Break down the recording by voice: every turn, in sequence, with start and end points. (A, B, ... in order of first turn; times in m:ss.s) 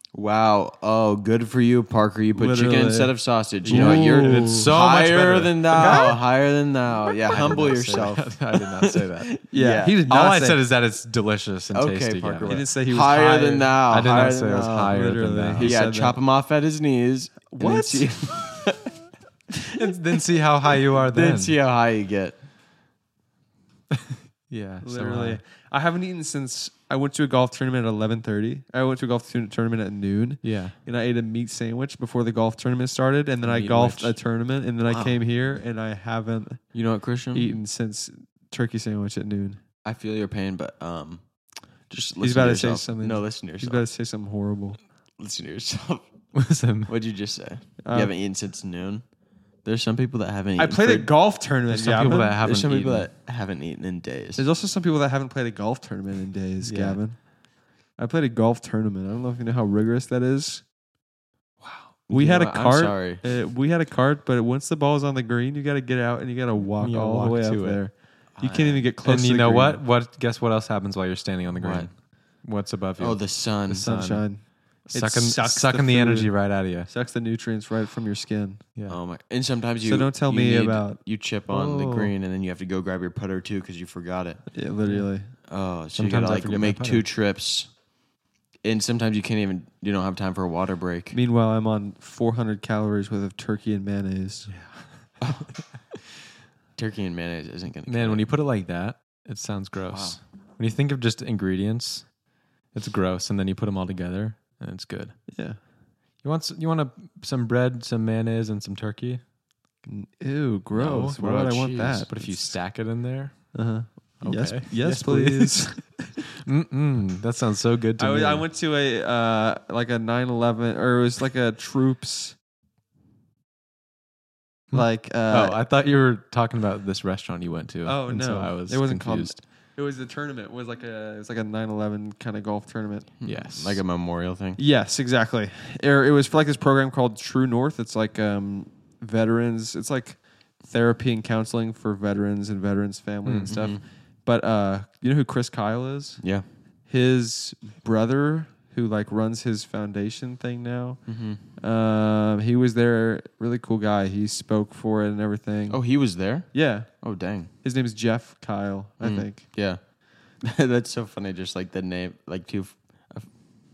0:00.1-0:10.1 A
0:02.4-0:04.7 B
0:03.6-0:06.2 C
0:05.7-0:06.2 B
0:07.2-0:09.4 C
0:09.5-0:10.6 B
0:10.1-0:12.6 C
0:11.7-0:15.0 A
0:12.4-0:13.8 B
0:13.9-0:15.7 C
0:14.6-0:16.2 B
0:15.6-0:18.9 A
0:17.5-0:18.4 B
0:19.7-0:21.6 C
0:21.0-0:22.4 A
0:24.5-0:25.4 C
0:24.8-0:36.7 B
0:30.4-0:30.8 C
0:33.4-0:34.2 C
0:34.9-0:35.2 A
0:36.7-0:37.6 A
0:37.3-0:39.6 B
0:39.8-0:41.2 A
0:41.9-0:43.8 A
0:42.2-0:44.8 B
0:45.2-0:46.3 A
0:46.3-0:46.9 C
0:46.9-0:49.1 A
0:47.8-0:48.1 B
0:49.6-0:51.1 A
0:50.6-0:52.4 B
0:51.7-0:53.1 C
0:52.4-0:54.4 A
0:54.4-0:57.4 B
0:56.6-0:57.0 C
0:57.9-1:00.6 B
1:02.1-1:03.2 A
1:02.1-1:09.8 B
1:06.8-1:07.8 C
1:08.4-1:08.8 A
1:09.0-1:16.9 C
1:11.6-1:11.9 A
1:13.0-1:13.9 A
1:13.7-1:18.6 B
1:18.9-1:24.5 A
1:19.8-1:21.0 B
1:21.5-1:22.1 C
1:24.5-1:25.3 B
1:25.4-1:27.8 A
1:26.0-1:27.1 C
1:28.6-1:31.2 A
1:31.1-1:34.6 B
1:34.5-1:35.1 C
1:35.2-1:35.5 A
1:36.8-1:38.3 A
1:37.9-1:42.1 C
1:39.9-1:40.2 A
1:42.7-1:45.2 C
1:45.3-1:45.6 B
1:46.2-1:49.2 C
1:49.8-1:52.6 B
1:50.7-1:58.4 C
1:51.2-1:52.0 A
1:53.5-1:56.2 B
1:58.0-2:02.4 B
2:04.7-2:09.4 C
2:04.7-2:05.6 B
2:07.8-2:13.1 B
2:13.2-2:14.6 A
2:13.2-2:13.8 C
2:14.6-2:26.3 B
2:23.2-2:23.6 C
2:23.5-2:23.8 A
2:26.2-2:26.4 A
2:26.9-2:39.5 B
2:31.1-2:31.4 A
2:35.7-2:37.5 A
2:39.0-2:43.4 A